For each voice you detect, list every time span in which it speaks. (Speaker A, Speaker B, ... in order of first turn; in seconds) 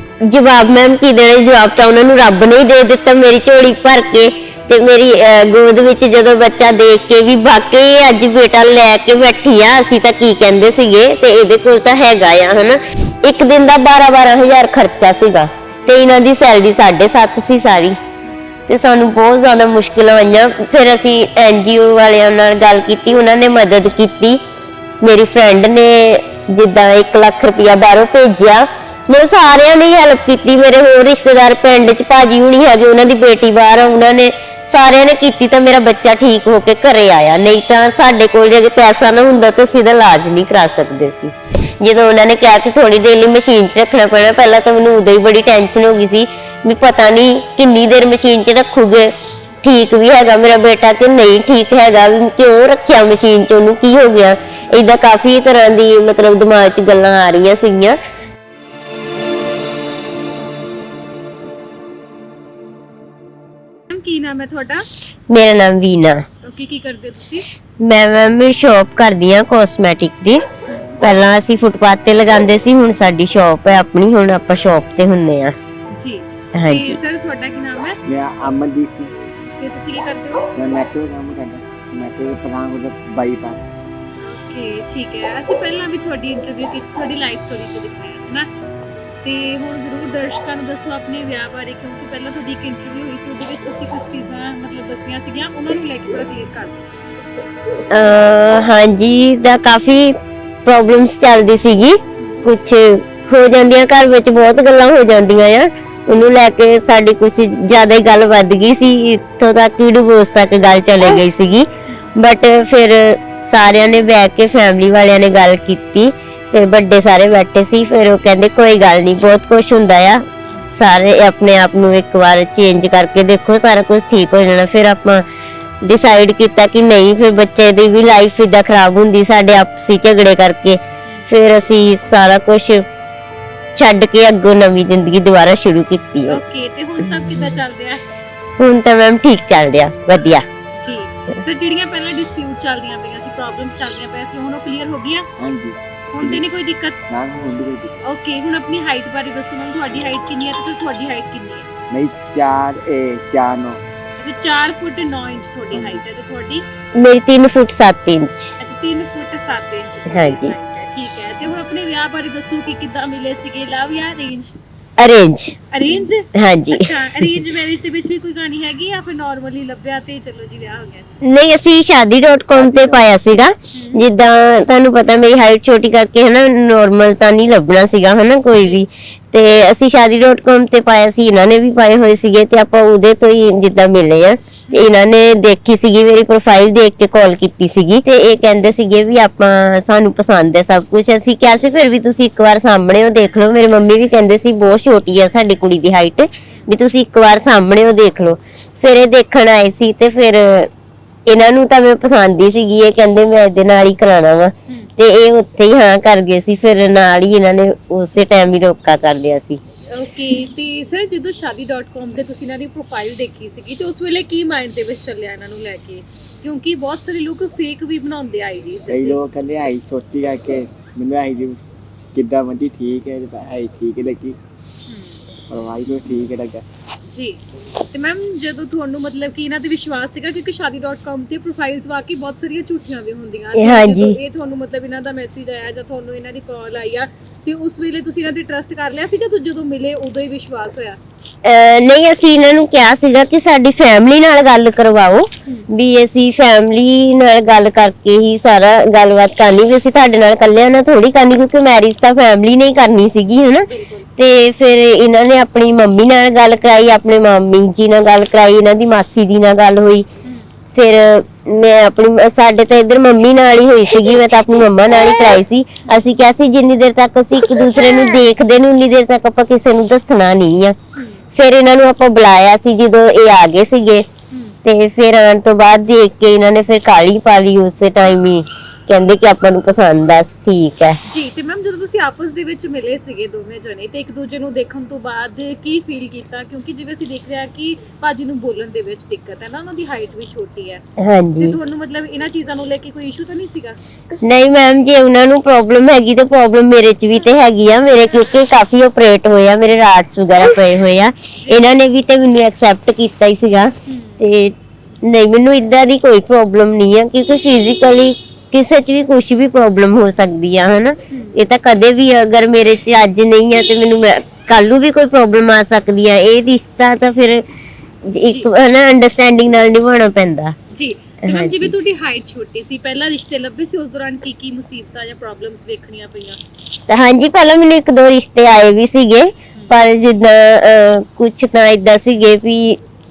Speaker A: 0.2-18.0, 18.7-24.4, 25.0-58.0, 65.3-66.2, 67.8-70.4, 71.0-75.5, 76.5-77.0, 97.9-120.2, 120.8-125.2, 125.8-132.8, 133.7-136.4, 138.6-140.4, 156.9-158.5, 160.1-160.5, 165.0-165.6, 166.3-166.9, 171.2-200.7, 201.3-209.6, 233.6-234.2, 241.4-260.1, 260.7-270.8, 271.4-274.1, 274.6-281.0, 291.0-291.6, 294.2-317.4, 318.0-320.5, 321.2-321.7, 326.9-332.8
Speaker B: 15.7-16.0, 63.9-64.9, 66.4-67.5, 70.7-71.0, 75.9-78.0, 79.6-80.5, 84.2-88.5, 89.2-96.8, 106.0-106.3, 136.3-138.0, 140.8-145.3, 146.1-147.0, 148.0-151.7, 154.2-156.6, 158.6-164.6, 165.7-171.1, 173.7-174.0, 209.9-219.2, 224.9-225.2, 227.1-241.0, 253.7-254.1, 270.9-271.2, 274.3-274.6, 281.0-290.8, 291.4-293.8, 303.9-304.2, 311.1-311.4, 320.7-326.4
Speaker C: 78.0-79.1, 80.5-83.6, 145.4-146.4, 147.1-148.0, 151.9-153.8, 155.7-156.0, 172.5-173.1, 218.9-224.4, 225.5-226.6